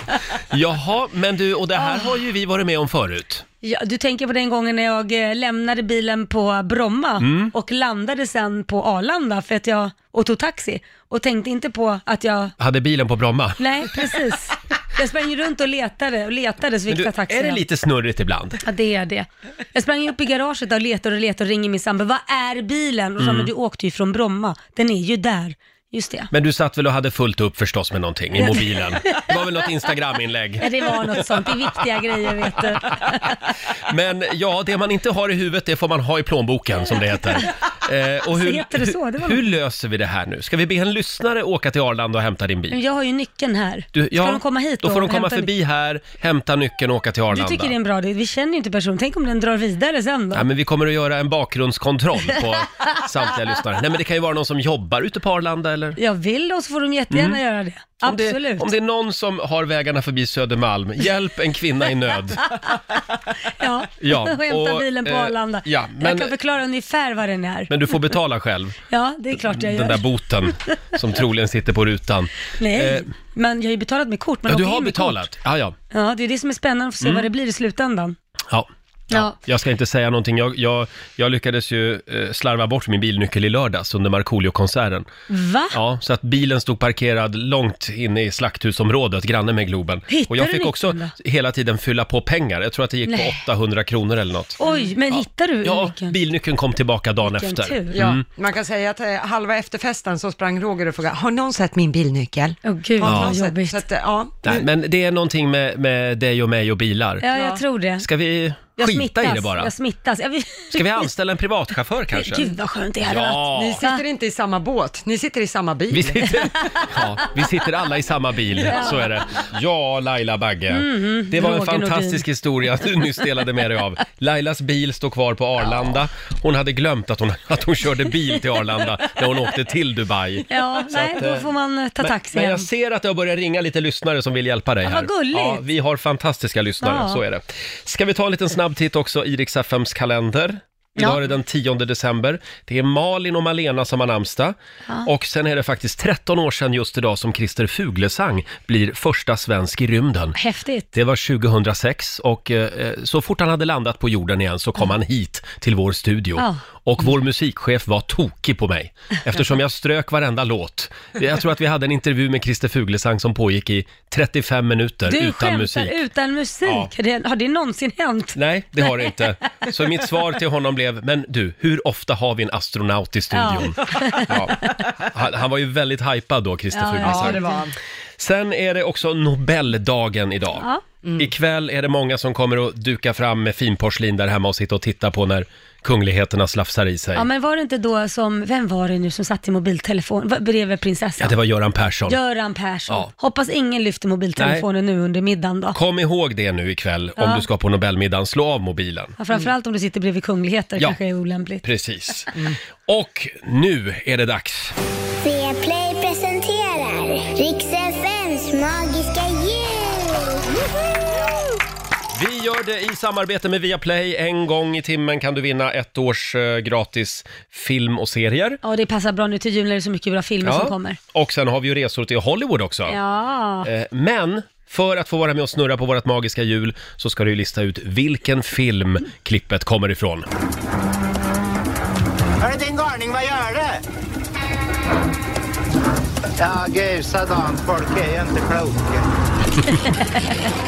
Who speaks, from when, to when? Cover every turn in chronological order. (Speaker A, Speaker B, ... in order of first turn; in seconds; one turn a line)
Speaker A: 0.5-3.4
Speaker B: 1.7-2.1
Speaker B: 3.6-12.5
Speaker A: 7.2-7.5
Speaker A: 12.6-13.6
Speaker B: 13.6-17.6
Speaker A: 16.9-18.6
Speaker B: 18.6-26.3
Speaker A: 23.2-23.5
Speaker A: 26.3-31.2
Speaker B: 28.3-29.3
Speaker B: 30.6-33.4
Speaker A: 33.9-42.8
Speaker B: 38.2-39.4
Speaker B: 42.7-45.5
Speaker A: 43.9-47.7
Speaker B: 47.3-50.4
Speaker A: 50.3-56.0
Speaker B: 56.0-58.7
Speaker A: 57.1-57.4
Speaker A: 58.0-62.5
Speaker B: 63.6-67.8
Speaker A: 64.0-66.3
Speaker A: 67.7-68.8
Speaker B: 68.9-70.0
Speaker A: 69.4-73.1
Speaker B: 72.6-75.2
Speaker A: 74.5-75.8
Speaker B: 75.9-78.2
Speaker A: 77.0-77.3
Speaker A: 78.5-85.1
Speaker B: 79.1-79.3
Speaker B: 85.3-85.8
Speaker A: 85.7-98.2
Speaker B: 90.1-91.1
Speaker B: 93.0-93.4
Speaker B: 94.6-96.2
Speaker C: 94.6-94.9
Speaker B: 97.2-98.0
Speaker C: 97.9-104.6
Speaker B: 102.6-103.8
Speaker A: 103.0-103.3
Speaker A: 104.4-107.2
Speaker B: 107.2-108.0
Speaker C: 107.3-107.6
Speaker A: 108.0-109.7
Speaker B: 108.8-111.1
Speaker A: 110.7-112.5
Speaker B: 112.1-114.0
Speaker A: 113.0-113.8
Speaker C: 113.5-116.3
Speaker A: 115.9-131.5
Speaker B: 118.7-119.1
Speaker B: 120.7-122.2
Speaker B: 130.5-132.7
Speaker A: 132.0-150.4
Speaker B: 134.8-135.6
Speaker B: 136.8-137.2
Speaker B: 150.3-150.9
Speaker A: 150.9-166.0
Speaker B: 165.1-169.1
Speaker A: 166.6-166.9
Speaker A: 168.3-177.4
Speaker B: 173.3-174.4
Speaker B: 176.7-177.6
Speaker C: 177.0-177.7
Speaker A: 178.2-187.3
Speaker C: 181.0-181.3
Speaker B: 187.1-191.3
Speaker A: 191.2-192.2
Speaker B: 192.1-195.8
Speaker A: 194.4-194.7
Speaker A: 195.7-199.1
Speaker B: 197.2-197.4
Speaker B: 199.2-201.6
Speaker A: 201.6-202.3
Speaker A: 202.9-204.7
Speaker D: 205.2-210.4
Speaker A: 212.1-218.6
Speaker B: 218.6-221.0
Speaker A: 220.4-223.0
Speaker B: 222.9-223.7
Speaker A: 223.6-230.2
Speaker E: 232.4-233.8
Speaker E: 236.4-239.0
Speaker B: 239.7-240.5